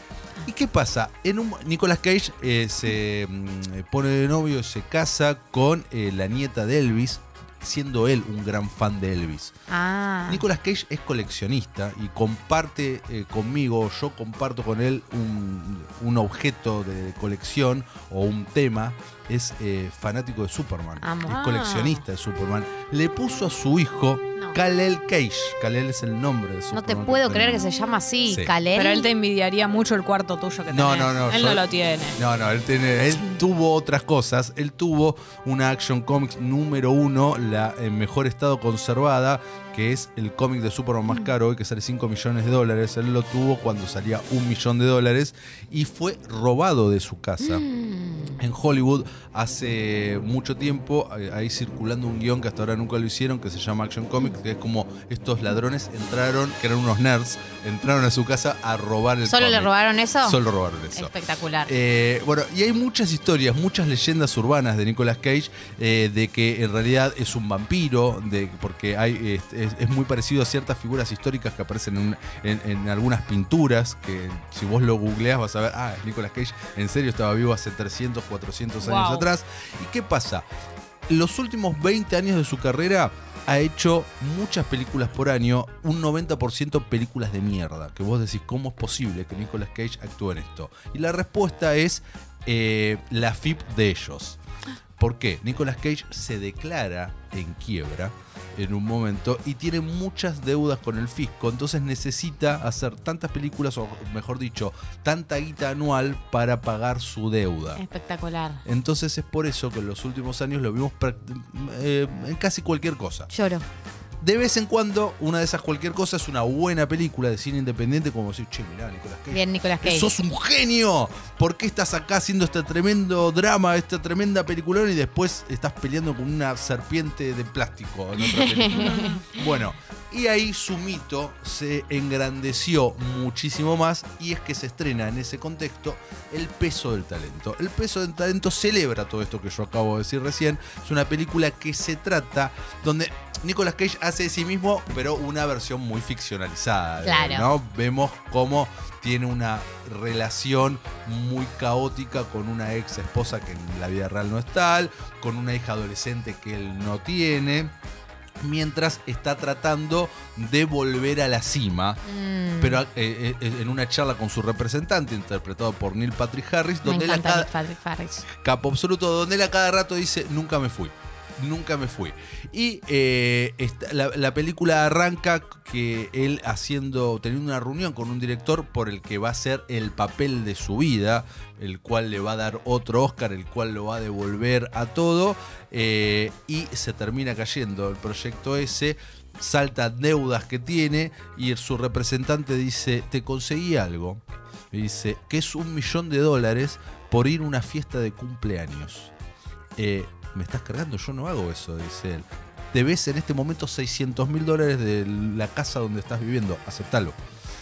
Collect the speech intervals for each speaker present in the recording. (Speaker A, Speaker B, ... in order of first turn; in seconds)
Speaker A: 0.4-9.5, 10.3-27.6, 28.3-28.5, 30.7-31.6, 32.1-47.6, 48.4-61.1, 61.6-80.4, 81.1-94.4, 95.0-107.8, 108.6-113.3, 114.2-157.7, 158.4-162.0, 162.6-167.5, 168.3-199.1, 199.8-207.2
Speaker B: 9.7-10.4, 21.0-21.6, 26.7-29.1, 47.4-48.4, 59.2-60.4, 60.9-61.7, 107.8-108.6, 113.3-113.6, 119.3-120.1, 128.3-129.2, 147.0-147.5, 162.1-162.8, 166.8-168.2
Speaker C: 21.3-22.0, 28.7-32.2, 78.8-79.3, 128.7-129.2